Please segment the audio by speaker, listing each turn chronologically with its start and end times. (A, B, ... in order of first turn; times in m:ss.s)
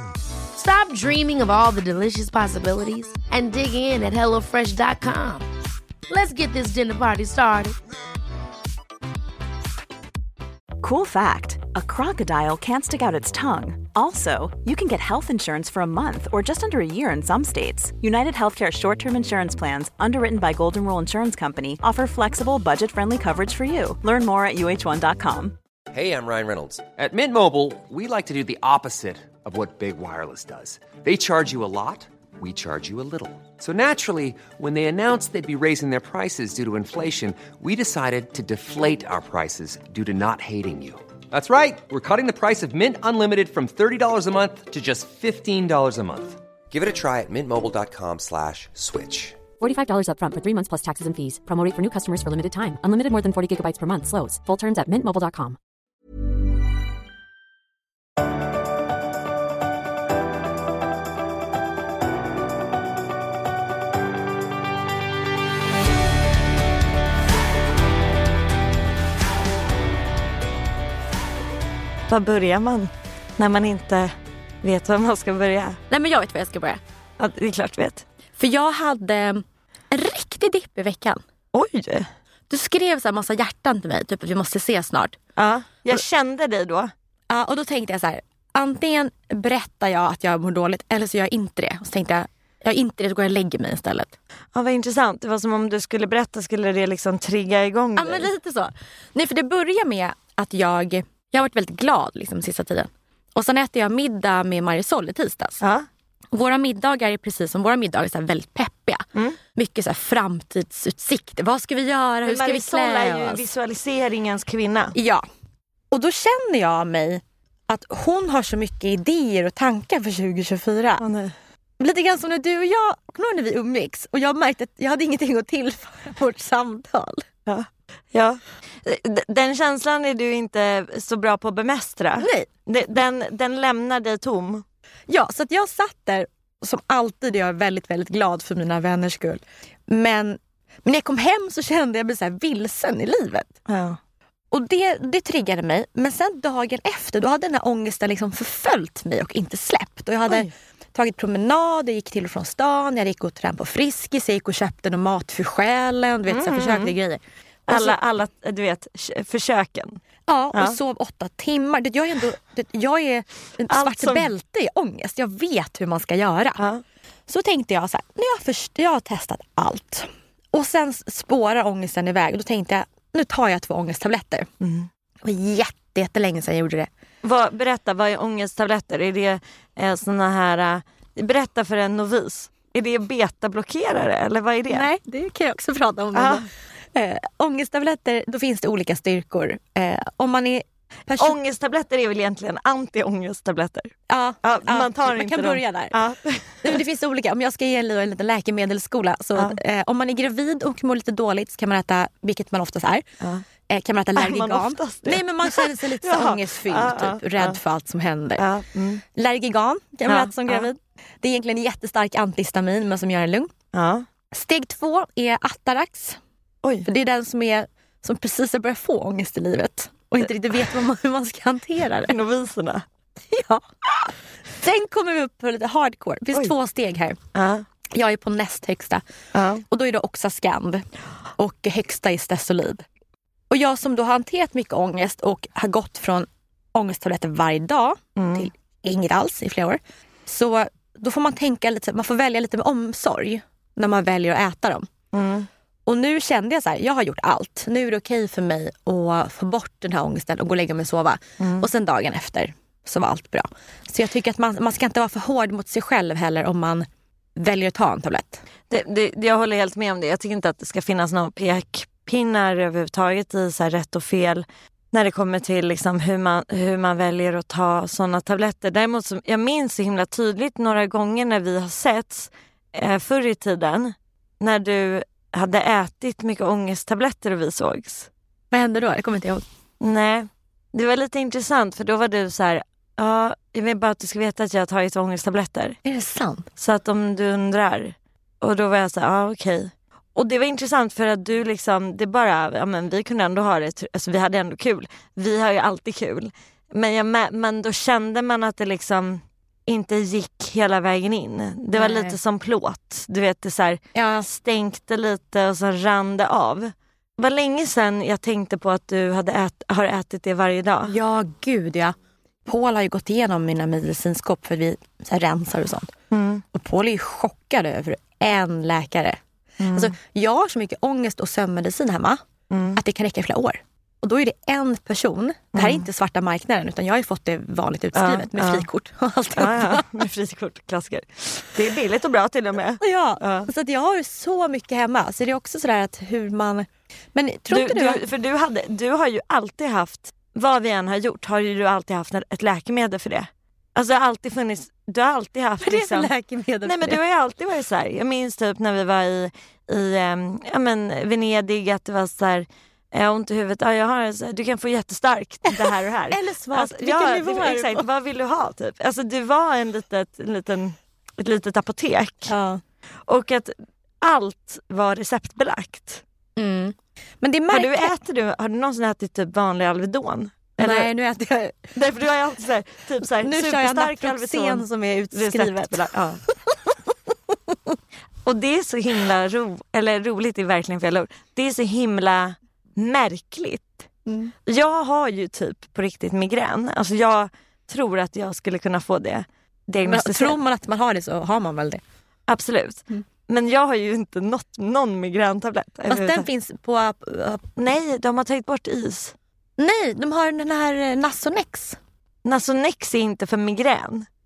0:00.5-0:05.5 A
0:06.1-0:07.8 A
0:10.8-0:25.6 B
0:25.9-0:49.4 C
0:49.6-0:55.6 D
1:12.1-1:15.8 E
1:15.9-1:16.8 F
1:17.2-1:18.0 E
1:18.4-1:21.2 F
1:21.5-1:22.1 E
1:22.5-1:25.2 F
1:25.4-1:26.9 E
1:27.3-1:34.2 F
1:34.5-1:38.3 E
1:38.0-1:45.6 F
1:45.6-1:45.9 E
1:46.3-1:53.4 F
1:52.2-1:54.9 E
1:54.9-1:55.2 F
1:55.9-2:01.0 F
2:01.0-2:01.3 E
2:01.8-2:07.2 F
2:07.5-2:14.6 E
2:12.2-2:12.5 F
2:15.1-2:23.5 F
2:23.7-2:24.0 E
2:24.5-2:38.0 F
2:36.3-2:36.9 E
2:37.7-2:40.0 E
2:40.3-2:46.6 F
2:43.7-2:44.3 E
2:47.3-2:54.5 F
2:54.6-2:54.9 E
2:55.2-2:56.9 F
2:57.2-3:04.9 E
3:04.7-3:11.4 F
3:06.1-3:06.4 E
3:11.2-3:16.8 E
3:14.1-3:16.0 F
3:16.6-3:23.1 F
3:23.7-3:28.4 F
3:24.2-3:27.6 E
3:28.4-3:29.0 E
3:29.1-3:33.5 F
3:30.1-3:30.7 E
3:33.7-3:34.0 E
3:34.3-3:36.2 F
3:36.8-3:42.2 F
3:42.0-3:42.8 E
3:43.3-3:47.2 F
3:47.3-3:47.6 E
3:47.9-3:49.0 F
3:49.3-3:49.6 E
3:49.6-3:50.8 F
3:51.4-3:52.8 F
3:53.5-4:04.9 F
3:58.2-3:58.5 E
4:05.1-4:05.5 E
4:05.8-4:18.4 F
4:11.4-4:11.7 E
4:18.7-4:38.1 E
4:38.5-4:39.4 F
4:39.8-4:45.8 E
4:45.8-4:46.5 F
4:46.6-5:11.0 E
5:01.7-5:02.2 F
5:03.9-5:04.3 F
5:10.8-5:15.9 F
5:16.1-5:16.4 E
5:16.5-5:22.2 F
5:19.6-5:19.9 E
5:22.5-5:22.8 E
5:22.7-5:30.0 F
5:25.5-5:25.8 E
5:27.9-5:28.7 E
5:29.4-5:33.5 E
5:32.8-5:38.0 F
5:37.5-5:46.1 E
5:45.6-5:47.0 F
5:46.6-6:02.3 E
5:55.5-5:57.9 F
6:02.3-6:02.6 F
6:03.1-6:06.0 E
6:06.4-6:07.9 F
6:07.5-6:10.9 E
6:10.6-6:11.7 F
6:11.7-6:16.2 E
6:13.2-6:16.7 F
6:17.3-6:17.7 F
6:18.2-6:23.8 E
6:24.1-6:24.3 F
6:24.4-6:30.4 E
6:29.8-6:31.8 F
6:32.3-6:36.2 E
6:35.9-6:37.4 F
6:37.6-6:39.1 E
6:39.6-6:41.8 F
6:42.2-6:44.1 E